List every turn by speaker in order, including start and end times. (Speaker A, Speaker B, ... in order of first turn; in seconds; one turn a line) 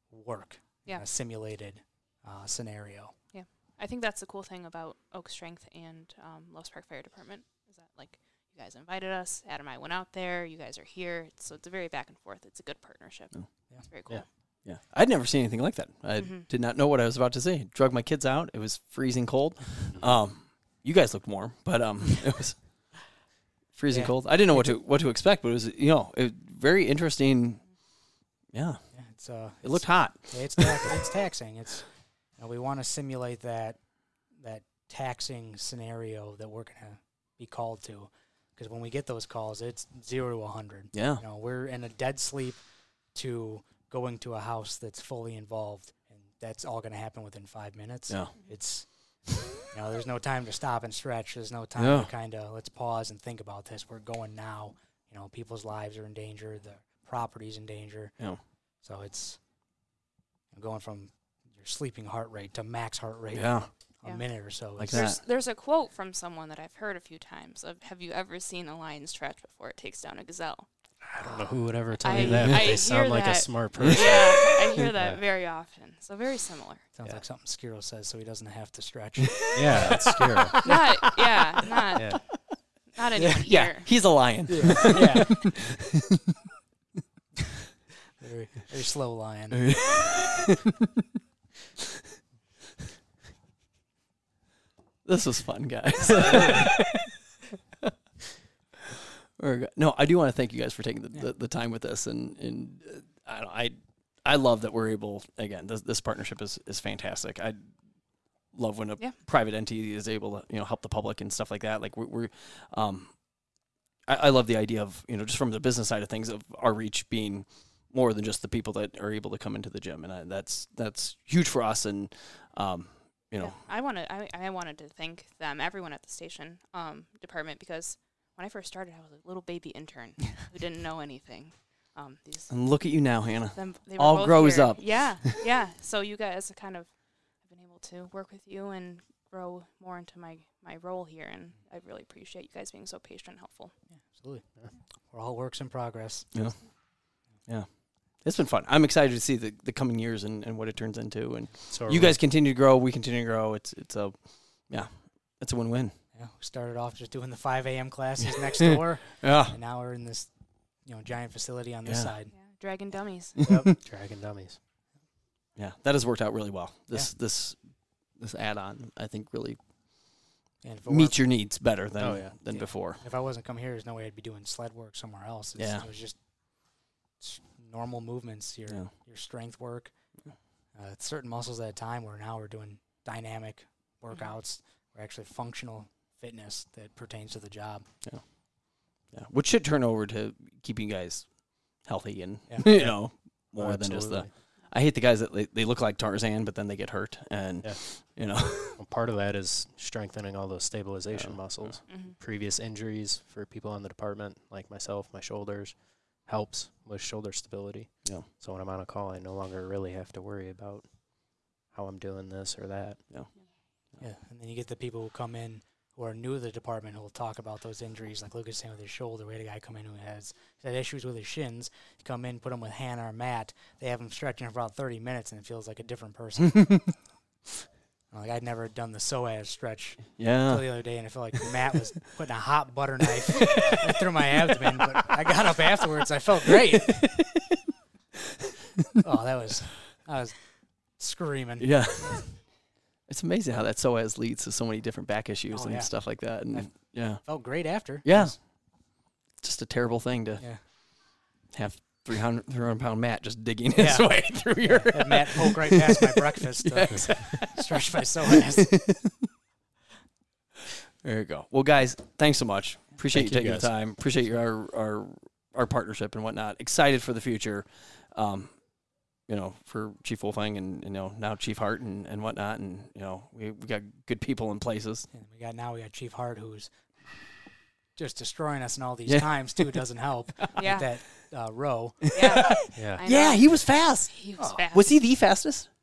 Speaker A: 0.1-3.1
Speaker B: 3.3-14.2
Speaker C: 14.7-22.6
Speaker B: 16.2-16.5
Speaker C: 23.7-27.7
Speaker A: 23.9-24.8
Speaker C: 28.5-28.8
Speaker A: 28.9-42.6
Speaker C: 29.6-31.0
Speaker C: 40.9-41.2
Speaker A: 43.1-58.2
Speaker C: 48.1-48.4
Speaker C: 51.8-52.1
Speaker A: 58.8-59.4
Speaker A: 60.5-65.0
Speaker C: 63.3-63.7
Speaker C: 64.8-65.2
Speaker B: 64.9-70.7
Speaker D: 71.0-75.2
Speaker B: 72.0-76.9
Speaker C: 72.2-72.7
Speaker A: 77.0-80.6
Speaker C: 79.2-81.2
Speaker D: 79.5-80.6
Speaker B: 80.6-82.2
Speaker D: 82.0-82.2
Speaker B: 82.9-83.9
Speaker A: 83.2-83.5
Speaker C: 83.5-86.2
Speaker A: 84.5-85.5
Speaker A: 88.2-89.8
Speaker C: 89.5-90.9
Speaker C: 95.0-97.0
Speaker A: 96.1-96.7
Speaker C: 99.4-107.7
Speaker C: 108.5-113.2
Speaker C: 114.1-123.5
Speaker B: 123.4-133.0
Speaker C: 132.5-135.4
Speaker B: 133.5-143.7
Speaker A: 143.9-144.4
Speaker A: 145.1-146.4
Speaker C: 146.3-146.6
Speaker C: 147.5-155.9
Speaker D: 151.7-152.2
Speaker A: 156.1-160.3
Speaker C: 158.6-159.6
Speaker A: 160.8-162.3
Speaker C: 161.8-162.1
Speaker B: 162.3-163.4
Speaker A: 163.4-163.7
Speaker D: 163.8-164.6
Speaker C: 165.6-169.6
Speaker A: 170.6-171.2
Speaker C: 170.9-173.0
Speaker D: 172.0-172.3
Speaker A: 172.5-176.2
Speaker C: 175.6-175.9
Speaker A: 177.2-179.9
Speaker A: 180.7-187.9
Speaker C: 189.1-198.8
Speaker A: 192.5-192.9
Speaker D: 193.6-194.3
Speaker D: 198.5-213.0
Speaker C: 201.1-201.8
Speaker B: 201.9-202.2
Speaker A: 214.0-227.0
Speaker A: 228.1-237.2
Speaker C: 230.2-230.8
Speaker C: 233.4-233.9
Speaker C: 236.8-237.6
Speaker A: 239.0-242.4
Speaker C: 241.6-242.5
Speaker C: 243.1-248.5
Speaker A: 245.5-248.4
Speaker C: 249.4-257.8
Speaker A: 250.4-250.6
Speaker A: 253.8-259.0
Speaker C: 258.3-259.1
Speaker C: 261.0-268.6
Speaker D: 263.1-263.7
Speaker C: 269.3-275.1
Speaker A: 275.1-276.7
Speaker A: 278.0-282.6
Speaker C: 279.1-279.8
Speaker C: 280.4-280.8
Speaker B: 280.6-280.9
Speaker B: 282.1-283.4
Speaker C: 282.1-284.1
Speaker D: 282.8-283.0
Speaker B: 284.1-284.9
Speaker A: 284.4-284.6
Speaker C: 284.7-285.7